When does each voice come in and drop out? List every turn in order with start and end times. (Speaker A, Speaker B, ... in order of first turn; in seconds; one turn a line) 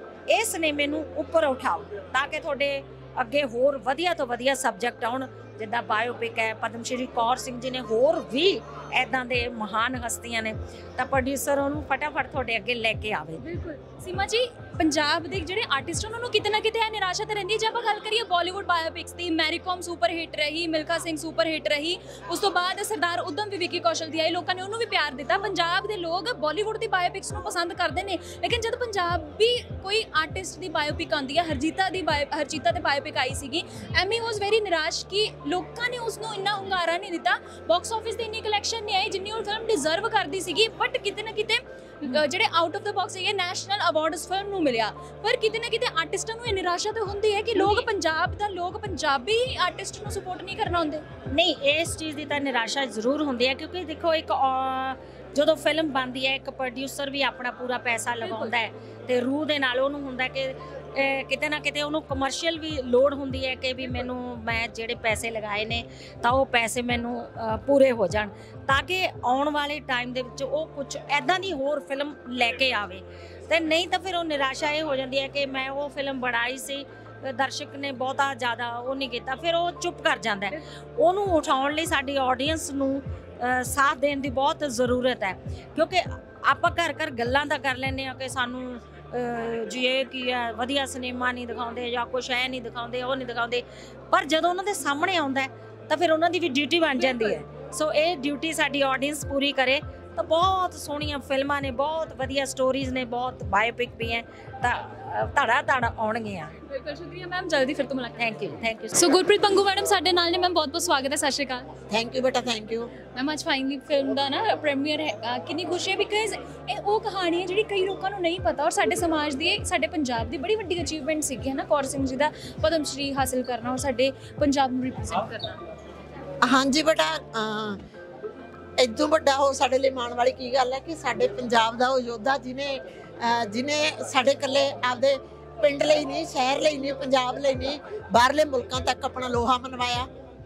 Speaker A: 0.3-13.4
Speaker B: 13.4-51.0
Speaker A: 51.3-106.5
Speaker B: 58.2-58.5
Speaker B: 97.0-97.4
Speaker B: 106.7-111.7
Speaker A: 108.2-109.0
Speaker C: 111.9-112.9
Speaker B: 113.1-125.6
Speaker C: 126.5-127.8
Speaker C: 128.8-140.1